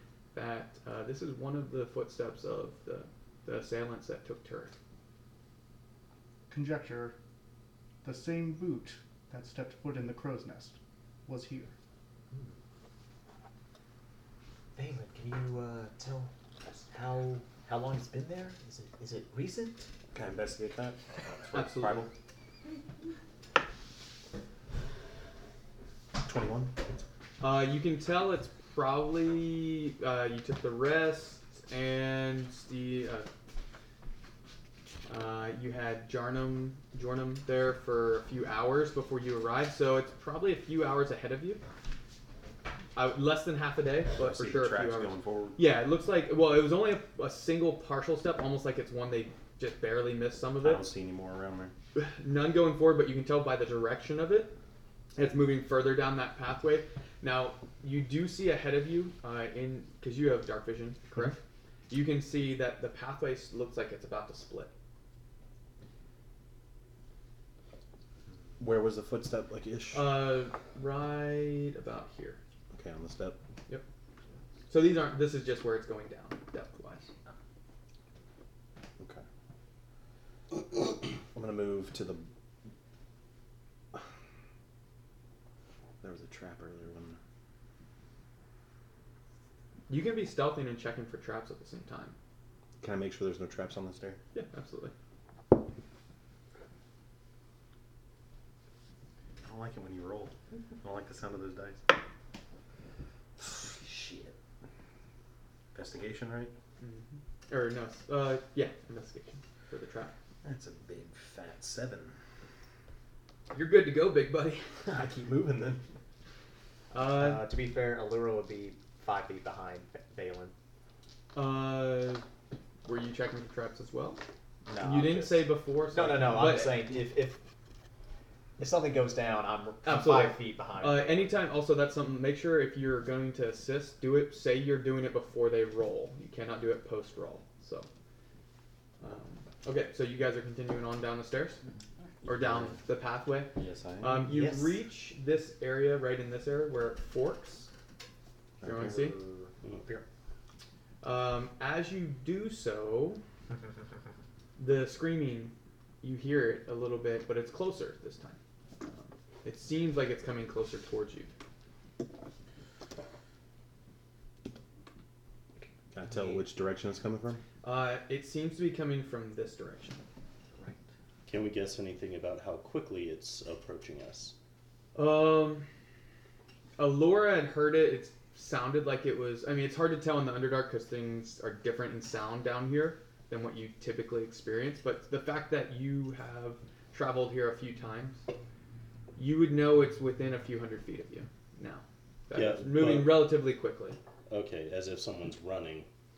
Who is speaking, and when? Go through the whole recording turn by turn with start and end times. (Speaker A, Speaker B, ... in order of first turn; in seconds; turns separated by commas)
Speaker A: 0.3-4.8, Speaker B: 6.5-7.2, Speaker B: 8.0-11.7, Speaker C: 12.3-12.6, Speaker C: 14.8-19.9, Speaker D: 20.1-22.1, Speaker A: 21.5-22.1, Speaker D: 26.2-26.8, Speaker A: 27.4-33.3, Speaker A: 35.1-41.6, Speaker A: 43.0-50.9, Speaker D: 44.2-45.6, Speaker D: 50.6-51.7, Speaker A: 52.0-54.6, Speaker A: 55.1-61.4, Speaker A: 61.9-64.7, Speaker D: 68.6-70.2, Speaker A: 69.9-72.4, Speaker D: 72.7-73.4, Speaker A: 74.7-77.1, Speaker D: 81.3-82.3, Speaker D: 86.0-87.2, Speaker A: 89.9-92.2, Speaker D: 92.8-94.2, Speaker A: 94.3-94.9, Speaker D: 99.4-101.8, Speaker D: 103.4-104.4, Speaker D: 105.7-106.5, Speaker A: 106.8-110.1, Speaker D: 110.4-112.2, Speaker A: 113.5-115.2, Speaker D: 114.9-115.8, Speaker A: 116.9-117.5, Speaker C: 117.1-120.5, Speaker A: 121.3-122.2, Speaker A: 122.8-124.2, Speaker C: 124.7-127.4, Speaker A: 124.8-127.0, Speaker C: 128.6-131.3, Speaker A: 129.8-137.9, Speaker A: 139.0-141.6, Speaker A: 142.2-147.7, Speaker D: 142.3-142.8, Speaker D: 143.6-144.2, Speaker C: 144.2-144.8, Speaker D: 148.6-150.1, Speaker A: 148.6-149.2, Speaker A: 151.0-153.2, Speaker A: 154.6-161.3, Speaker D: 165.9-167.4, Speaker A: 167.6-170.0, Speaker E: 171.3-174.3, Speaker A: 174.9-175.7, Speaker A: 176.8-188.2, Speaker A: 189.2-194.0, Speaker E: 192.3-193.3, Speaker E: 194.3-195.9